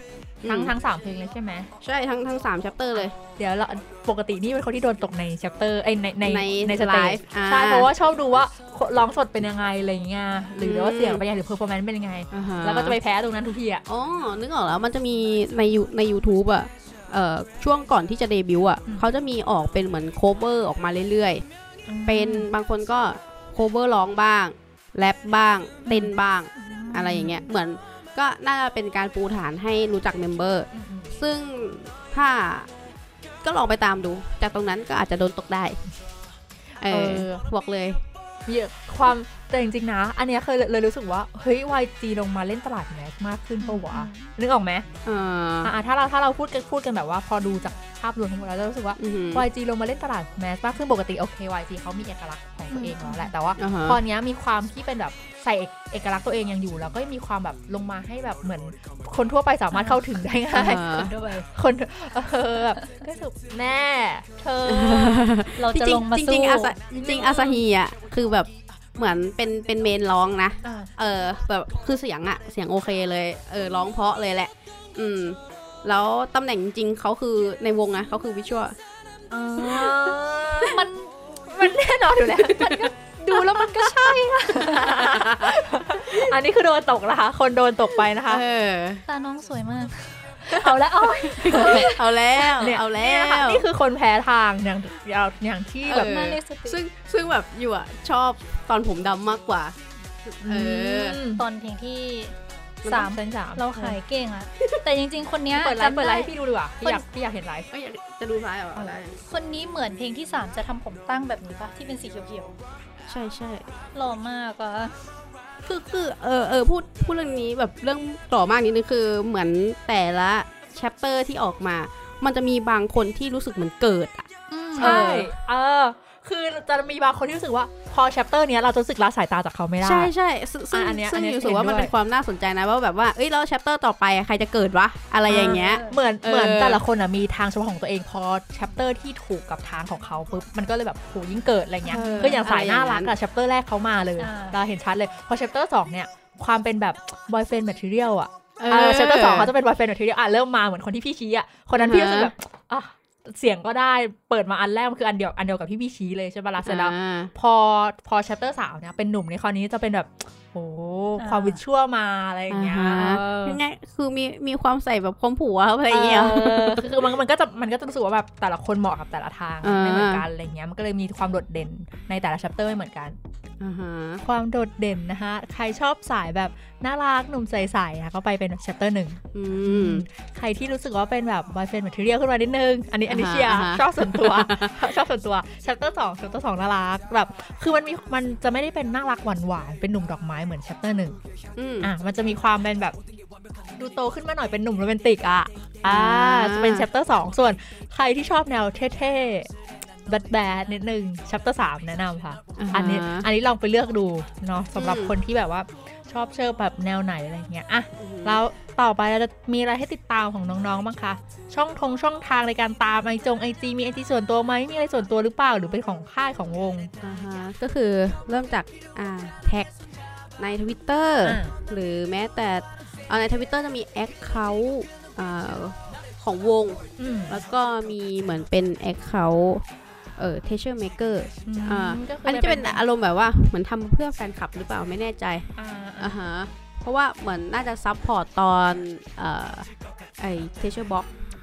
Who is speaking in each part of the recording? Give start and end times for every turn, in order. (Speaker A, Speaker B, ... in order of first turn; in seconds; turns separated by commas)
Speaker A: 0.4-0.7, Speaker B: 0.4-1.7, Speaker A: 1.8-3.1, Speaker B: 3.2-13.8, Speaker A: 6.2-7.9, Speaker A: 10.6-11.2, Speaker A: 12.3-13.0, Speaker A: 13.9-21.4, Speaker B: 21.9-22.5, Speaker A: 22.1-32.7, Speaker C: 25.9-27.3, Speaker B: 30.7-31.1, Speaker A: 33.4-35.8, Speaker A: 36.8-38.0, Speaker B: 36.9-37.4, Speaker B: 38.5-44.9, Speaker C: 43.6-44.3, Speaker A: 45.0-45.7, Speaker B: 45.6-65.3, Speaker A: 49.0-49.5, Speaker C: 52.7-53.3, Speaker A: 53.6-54.0, Speaker C: 59.7-61.5, Speaker A: 60.5-61.1, Speaker A: 64.7-78.8, Speaker C: 65.6-66.8, Speaker B: 67.0-67.6, Speaker B: 70.6-70.9, Speaker B: 79.3-80.8, Speaker A: 79.6-79.9, Speaker C: 80.7-81.1, Speaker B: 81.5-82.9, Speaker C: 82.6-85.0, Speaker B: 84.5-88.4, Speaker A: 84.7-85.6, Speaker A: 88.3-89.0, Speaker C: 89.1-92.0, Speaker A: 90.5-93.6, Speaker B: 91.5-91.9, Speaker B: 92.6-96.1, Speaker A: 95.9-99.8, Speaker C: 95.9-96.8, Speaker A: 100.3-101.2, Speaker B: 100.4-101.4, Speaker C: 101.3-102.3, Speaker C: 102.9-107.0, Speaker B: 102.9-104.0, Speaker B: 105.5-107.7, Speaker A: 107.7-109.2, Speaker C: 109.2-112.5, Speaker A: 113.1-113.7, Speaker C: 114.0-115.0, Speaker A: 115.7-124.3, Speaker C: 124.5-125.3, Speaker B: 124.8-130.1, Speaker A: 124.8-125.3, Speaker A: 129.8-136.8, Speaker B: 130.7-131.9, Speaker B: 135.3-163.6, Speaker C: 135.3-136.0, Speaker A: 141.9-143.1, Speaker C: 144.2-144.6, Speaker A: 148.6-149.5, Speaker A: 151.8-152.3, Speaker A: 156.6-157.3, Speaker C: 161.2-161.6, Speaker A: 162.5-166.9, Speaker B: 165.9-173.2, Speaker A: 169.6-170.2, Speaker A: 173.6-174.2, Speaker B: 174.2-191.2, Speaker A: 179.3-180.1, Speaker A: 183.1-184.8, Speaker A: 191.6-191.9, Speaker B: 191.8-193.0, Speaker B: 193.8-199.5, Speaker A: 195.8-196.9, Speaker B: 200.1-216.9, Speaker A: 202.6-203.3, Speaker A: 204.8-205.2, Speaker A: 208.0-208.4, Speaker A: 217.0-219.7, Speaker A: 220.4-229.6, Speaker B: 221.2-221.6, Speaker B: 227.0-227.4, Speaker A: 230.2-235.5, Speaker B: 231.5-232.8, Speaker B: 235.6-236.2, Speaker A: 236.0-239.7, Speaker A: 240.2-241.1